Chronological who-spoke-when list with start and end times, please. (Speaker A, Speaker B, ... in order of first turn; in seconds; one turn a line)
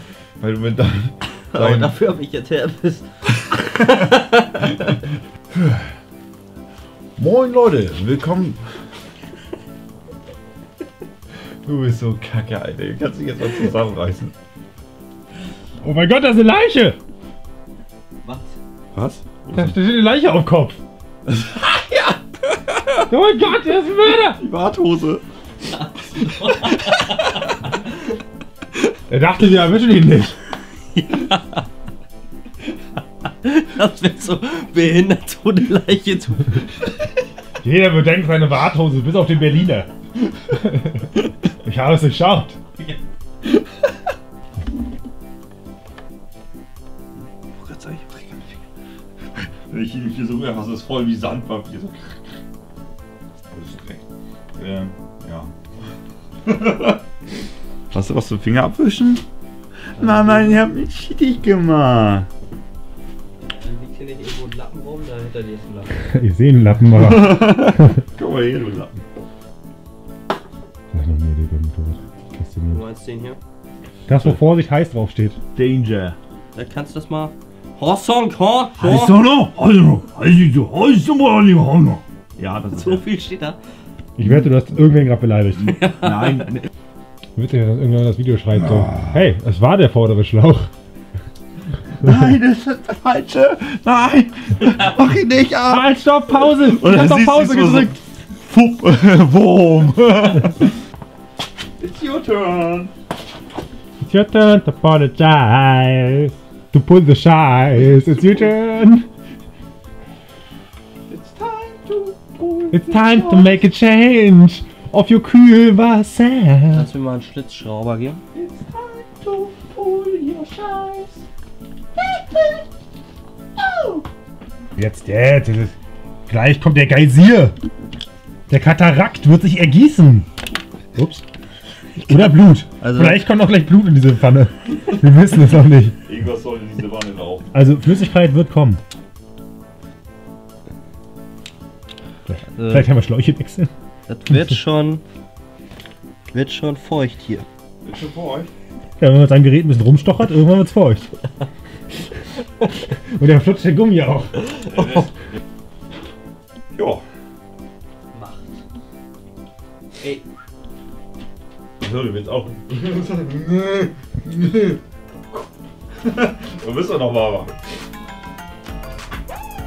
Speaker A: 0.4-2.0
Speaker B: 1.5-5.0
Speaker A: 3.5-5.0
Speaker A: 5.5-5.9
Speaker A: 7.2-8.6
Speaker A: 11.6-14.3
Speaker C: 15.8-17.0
Speaker B: 18.2-18.6
Speaker A: 18.9-19.8
Speaker C: 19.5-20.8
Speaker A: 21.3-23.1
Speaker C: 23.1-24.4
Speaker A: 24.4-25.2
Speaker B: 25.7-27.6
Speaker A: 26.5-27.5
Speaker C: 29.1-30.4
Speaker B: 30.9-31.6
Speaker B: 33.4-36.8
Speaker C: 37.6-39.9
Speaker C: 40.5-42.6
Speaker A: 47.2-48.6
Speaker A: 49.3-52.4
Speaker A: 53.5-55.5
Speaker A: 56.4-57.0
Speaker A: 57.9-59.2
Speaker A: 60.0-62.3
Speaker B: 60.0-60.6
Speaker B: 63.4-66.0
Speaker C: 66.0-68.0
Speaker A: 66.9-69.0
Speaker C: 70.9-72.8
Speaker B: 72.7-73.4
Speaker C: 74.1-75.4
Speaker A: 74.1-74.4
Speaker A: 75.6-76.2
Speaker B: 76.5-79.2
Speaker A: 78.8-83.1
Speaker B: 82.7-83.6
Speaker C: 84.2-85.8
Speaker A: 84.2-84.5
Speaker B: 85.7-86.5
Speaker A: 85.7-86.7
Speaker C: 87.4-90.7
Speaker A: 88.5-89.3
Speaker A: 92.0-100.8
Speaker C: 95.7-97.9
Speaker A: 101.8-102.9
Speaker C: 104.0-109.1
Speaker A: 111.1-113.6
Speaker C: 112.7-116.9
Speaker B: 116.7-118.2
Speaker A: 118.3-121.2
Speaker A: 122.0-122.7
Speaker A: 123.6-124.1
Speaker C: 124.8-125.8
Speaker C: 126.3-127.5
Speaker C: 128.5-130.3
Speaker C: 130.9-131.2
Speaker C: 132.0-136.0
Speaker B: 132.1-133.2
Speaker A: 136.0-137.5
Speaker C: 137.5-138.8
Speaker C: 142.3-143.7
Speaker B: 142.6-142.9
Speaker B: 144.1-145.0
Speaker B: 146.3-147.5
Speaker A: 147.8-148.5
Speaker C: 149.0-151.1
Speaker C: 152.9-154.6
Speaker A: 156.7-157.0
Speaker B: 158.1-158.6
Speaker A: 161.8-164.8
Speaker A: 165.3-167.5